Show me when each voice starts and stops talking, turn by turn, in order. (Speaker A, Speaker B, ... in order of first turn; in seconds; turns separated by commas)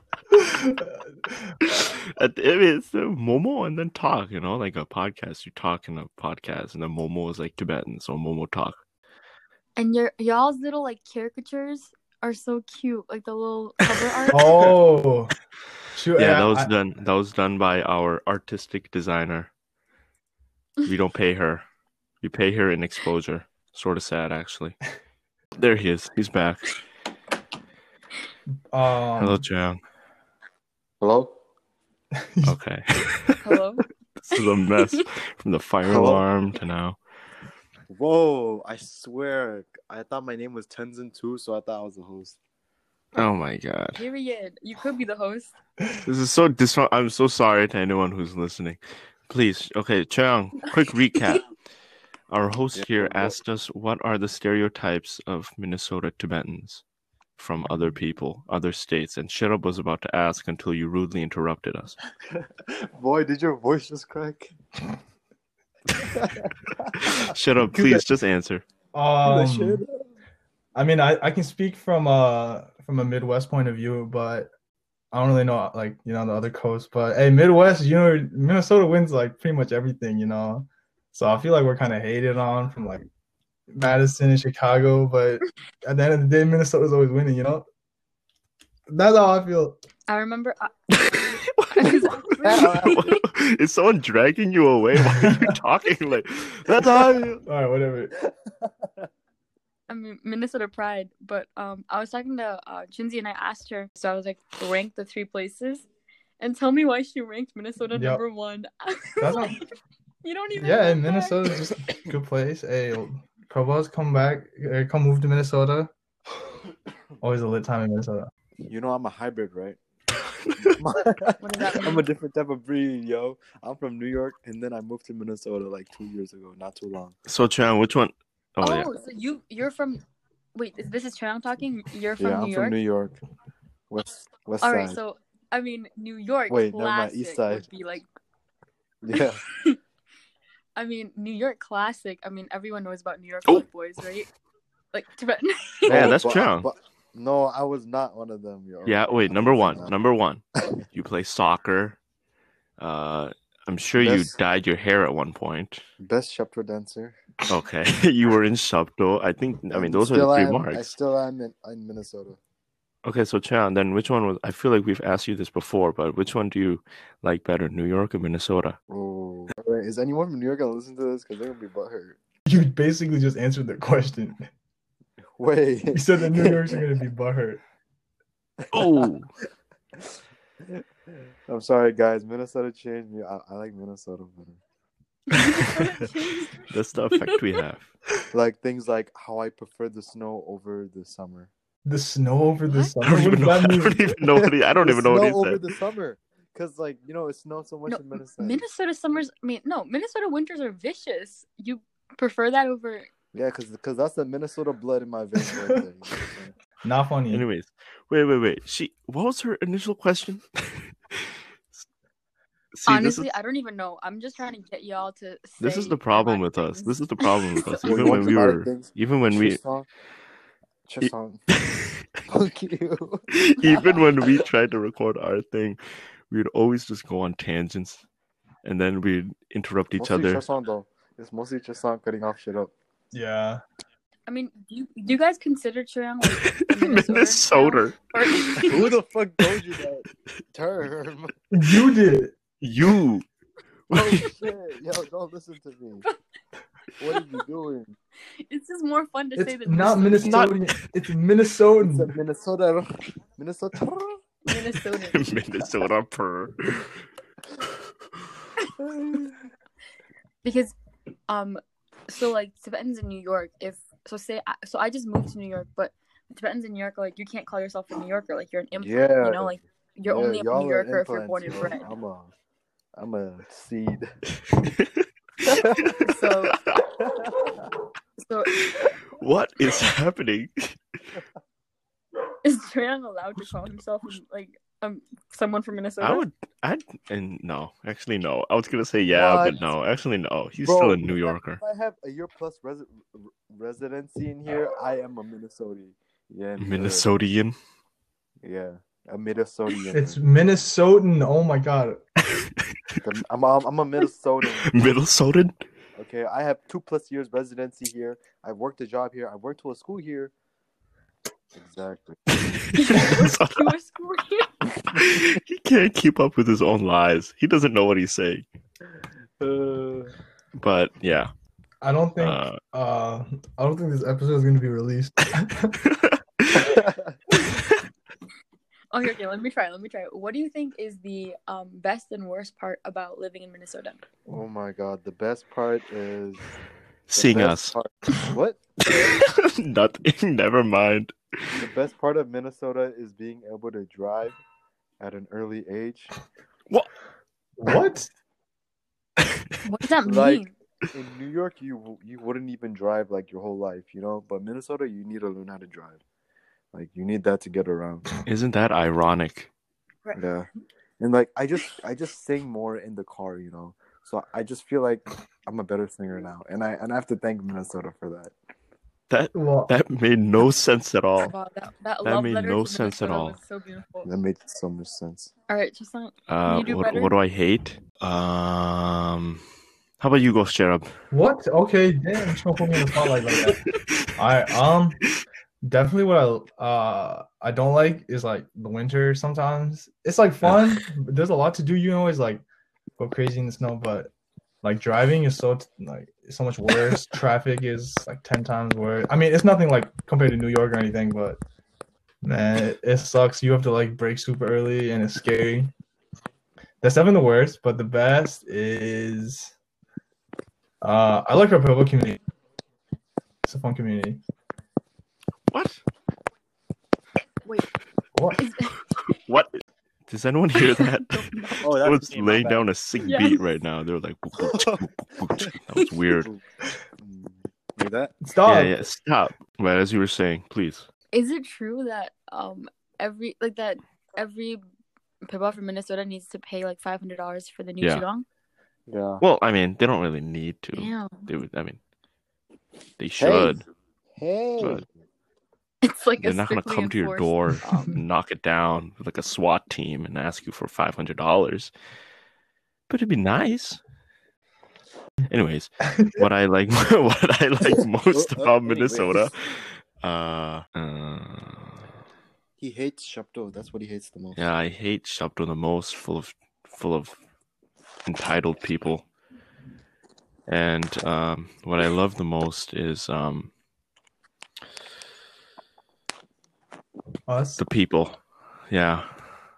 Speaker A: 0.3-1.7, Speaker B: 1.6-8.8, Speaker C: 9.8-14.7, Speaker A: 14.3-15.3, Speaker A: 15.9-16.7, Speaker B: 16.1-19.5, Speaker B: 20.8-21.6, Speaker B: 22.2-24.8, Speaker B: 25.5-26.8, Speaker A: 28.7-29.4, Speaker B: 29.2-29.8, Speaker D: 31.0-31.3, Speaker A: 32.1-32.6, Speaker B: 32.5-33.6, Speaker C: 33.4-33.8, Speaker B: 34.2-37.0, Speaker C: 34.8-35.0, Speaker D: 35.8-36.2, Speaker D: 37.9-42.4, Speaker B: 43.1-44.0, Speaker C: 43.9-45.5, Speaker B: 46.0-51.5, Speaker B: 52.3-56.8, Speaker D: 52.7-53.4, Speaker B: 57.4-62.0, Speaker D: 62.3-64.5, Speaker D: 66.0-67.2, Speaker B: 67.0-68.6, Speaker A: 67.7-68.0, Speaker A: 68.9-69.8, Speaker D: 69.2-70.0, Speaker A: 70.7-74.5, Speaker A: 75.1-83.1, Speaker A: 83.7-87.7, Speaker A: 88.9-89.8, Speaker C: 90.1-93.2, Speaker B: 90.9-97.4, Speaker D: 92.4-93.0, Speaker A: 95.0-95.5, Speaker A: 96.8-98.2, Speaker D: 98.5-99.0, Speaker C: 99.9-105.9, Speaker C: 106.4-109.6, Speaker A: 107.9-108.2, Speaker A: 109.2-109.6, Speaker C: 110.2-111.5, Speaker A: 110.6-115.9, Speaker A: 117.2-118.3, Speaker D: 118.7-119.8, Speaker B: 120.4-120.7, Speaker D: 120.6-127.1, Speaker C: 121.4-122.0, Speaker B: 127.3-128.9, Speaker C: 128.6-130.0, Speaker C: 130.5-132.8, Speaker D: 132.2-133.2, Speaker D: 133.9-135.0, Speaker C: 134.6-138.1, Speaker D: 136.5-137.7, Speaker D: 139.0-139.4, Speaker C: 139.1-139.8, Speaker C: 140.8-144.3, Speaker C: 144.9-146.2, Speaker B: 145.9-146.7, Speaker D: 145.9-149.9, Speaker B: 148.8-152.0, Speaker B: 152.8-155.8, Speaker D: 153.9-154.3, Speaker D: 156.0-157.2, Speaker B: 157.5-160.9, Speaker D: 159.7-162.4, Speaker B: 163.0-168.8, Speaker D: 168.9-172.2, Speaker A: 172.4-174.5, Speaker D: 175.4-176.8, Speaker A: 175.9-177.6, Speaker D: 178.7-179.1, Speaker B: 178.7-179.3, Speaker D: 179.9-180.8, Speaker D: 181.5-184.6, Speaker C: 185.3-186.7, Speaker B: 186.7-187.9, Speaker D: 188.3-191.5, Speaker A: 191.8-194.1, Speaker C: 192.6-193.0, Speaker B: 193.0-195.7, Speaker D: 194.3-198.6, Speaker C: 197.9-203.1, Speaker D: 203.3-206.5, Speaker A: 205.4-205.8, Speaker A: 206.8-207.4, Speaker B: 207.3-211.8, Speaker B: 212.7-213.3, Speaker C: 212.9-217.8, Speaker B: 215.6-219.6, Speaker D: 217.8-219.8, Speaker D: 220.9-221.4, Speaker B: 221.0-222.0, Speaker D: 222.3-223.2, Speaker B: 223.3-228.0, Speaker C: 223.6-224.1, Speaker B: 228.6-230.4, Speaker D: 230.0-232.7, Speaker A: 233.1-233.6, Speaker C: 234.3-238.9, Speaker B: 236.2-239.6, Speaker D: 238.6-241.3, Speaker A: 241.5-242.3, Speaker B: 242.6-243.2, Speaker B: 243.9-244.3, Speaker D: 243.9-246.1, Speaker D: 247.0-247.9, Speaker C: 248.5-250.5, Speaker A: 249.3-252.1, Speaker B: 250.2-250.7, Speaker D: 251.8-254.3, Speaker C: 254.4-255.3, Speaker B: 254.9-257.0, Speaker C: 260.4-260.7, Speaker C: 261.3-271.9, Speaker D: 268.8-272.3, Speaker D: 272.9-274.1, Speaker B: 274.5-275.0, Speaker C: 275.4-276.6, Speaker D: 275.5-276.1, Speaker B: 276.5-276.8, Speaker D: 276.9-277.7, Speaker C: 278.2-278.5, Speaker B: 278.5-281.2, Speaker C: 282.4-286.2, Speaker B: 286.0-291.6, Speaker C: 289.1-289.6, Speaker D: 290.6-297.1, Speaker B: 296.6-297.6, Speaker D: 298.4-300.2, Speaker A: 299.9-302.0, Speaker B: 302.2-303.0, Speaker D: 303.0-304.7, Speaker B: 304.5-305.6, Speaker D: 305.9-310.3, Speaker D: 311.5-312.2, Speaker B: 312.4-313.7, Speaker C: 312.7-314.6, Speaker B: 314.9-318.4, Speaker D: 319.4-320.1, Speaker B: 320.6-321.3, Speaker A: 321.8-325.7, Speaker B: 322.2-322.6, Speaker B: 325.8-326.8, Speaker D: 326.5-327.2, Speaker C: 328.9-334.0, Speaker D: 334.3-336.5, Speaker B: 337.1-337.8, Speaker D: 337.1-338.6, Speaker B: 338.8-341.7, Speaker D: 341.6-344.4, Speaker D: 345.0-346.2, Speaker A: 347.6-348.1, Speaker C: 349.6-350.5, Speaker D: 350.0-356.0, Speaker D: 356.7-358.1, Speaker B: 358.2-359.5, Speaker D: 360.1-360.5, Speaker D: 361.0-368.3, Speaker B: 369.1-371.3, Speaker A: 369.3-369.7, Speaker C: 371.2-374.1, Speaker B: 372.0-373.4, Speaker D: 374.0-375.3, Speaker C: 375.5-377.1, Speaker B: 376.3-379.4, Speaker B: 380.0-381.0, Speaker A: 381.1-383.6, Speaker B: 382.8-384.1, Speaker A: 384.2-385.0, Speaker A: 385.6-392.4, Speaker B: 390.4-390.8, Speaker A: 393.0-394.1, Speaker A: 394.6-401.4, Speaker A: 402.2-405.7, Speaker A: 406.8-409.5, Speaker A: 410.8-412.2, Speaker A: 413.4-414.2, Speaker B: 415.5-415.8, Speaker A: 418.1-418.4, Speaker C: 418.4-418.8, Speaker B: 419.1-426.3, Speaker C: 420.6-421.7, Speaker D: 421.6-422.7, Speaker C: 423.0-423.4, Speaker D: 424.4-424.8, Speaker D: 427.0-428.1, Speaker A: 428.2-428.8, Speaker B: 428.4-430.9, Speaker C: 431.1-434.6, Speaker C: 435.2-438.2, Speaker D: 438.9-439.2, Speaker B: 439.2-441.8, Speaker C: 440.7-441.3, Speaker B: 443.0-443.6, Speaker D: 443.2-443.6, Speaker D: 444.1-444.9, Speaker B: 444.6-444.8, Speaker C: 445.8-448.0, Speaker B: 446.2-451.7, Speaker B: 452.9-453.8, Speaker B: 455.3-461.9, Speaker A: 455.9-456.2, Speaker D: 458.1-459.3, Speaker D: 462.6-464.4, Speaker B: 464.3-467.1, Speaker B: 468.0-469.1, Speaker B: 470.5-473.5, Speaker A: 477.3-477.6, Speaker B: 477.6-479.4